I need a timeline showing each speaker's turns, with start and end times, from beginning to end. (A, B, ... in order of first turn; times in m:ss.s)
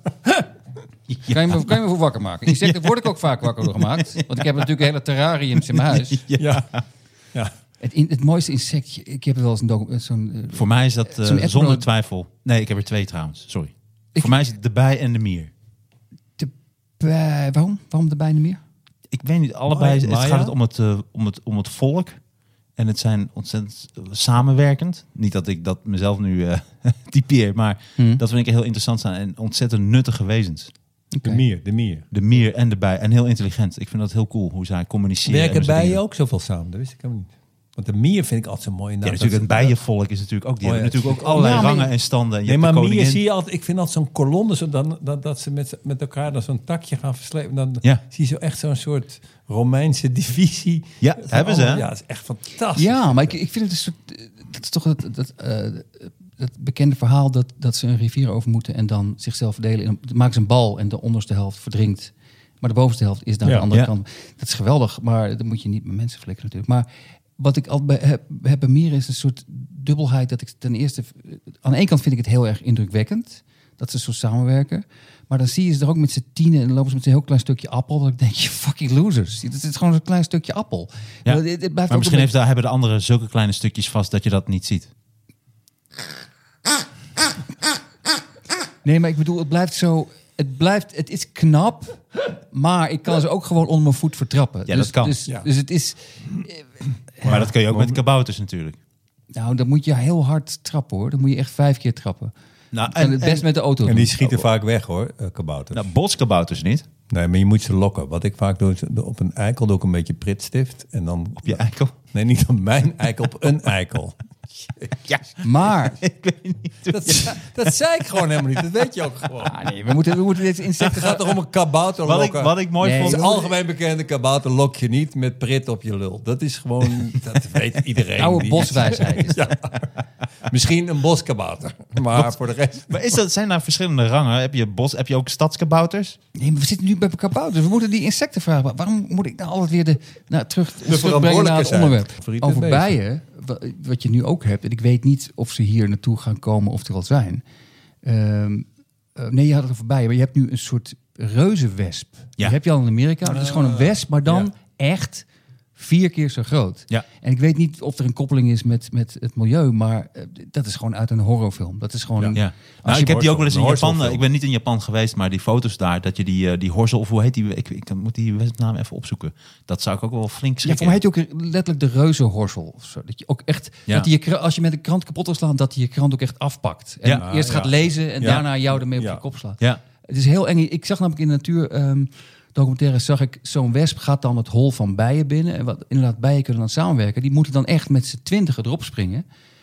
0:01.1-0:01.8 A
0:01.2-0:06.2 B
0:02.5-0:04.4 A
0:05.8-0:06.8 A
0:06.4-0:06.7 C
0:07.8-0:11.8 B
0:10.5-0:15.5 A
0:16.4-0:18.6 B
0:19.1-0:22.2 A
0:19.7-0:20.5 C
0:22.8-0:30.7 A
0:31.1-0:31.4 B
0:31.2-0:32.1 C
0:32.1-0:36.0 A
0:35.2-0:39.8 C
0:39.0-0:43.2 A
0:40.6-0:41.9 C
0:41.2-0:41.9 B
0:42.4-0:53.4 C
0:51.0-0:51.9 A
0:52.8-1:06.9 B
1:07.4-1:22.3 B
1:21.2-1:24.9 A
1:28.8-1:36.6 B
1:34.7-1:35.1 A
1:37.2-1:38.8 A
1:37.2-1:38.0 C
1:39.3-1:42.3 B
1:42.7-1:43.4 A
1:42.9-1:44.3 B
1:43.8-1:45.9 C
1:45.7-1:46.8 A
1:47.1-1:54.9 C
1:51.4-1:51.9 A
1:55.0-1:57.4 A
1:55.4-1:56.0 B
1:56.9-1:59.6 C
1:59.4-2:01.2 B
2:00.8-2:09.9 C
2:02.0-2:03.2 A
2:02.8-2:03.5 B
2:08.2-2:09.4 B
2:10.5-2:13.2 C
2:12.9-2:16.2 A
2:16.3-2:27.4 B
2:20.8-2:23.0 C
2:28.0-2:43.3 B
2:33.2-2:34.4 C
2:42.3-2:51.0 A
2:42.9-2:44.2 C
2:50.6-3:09.2 B
2:57.2-2:59.2 C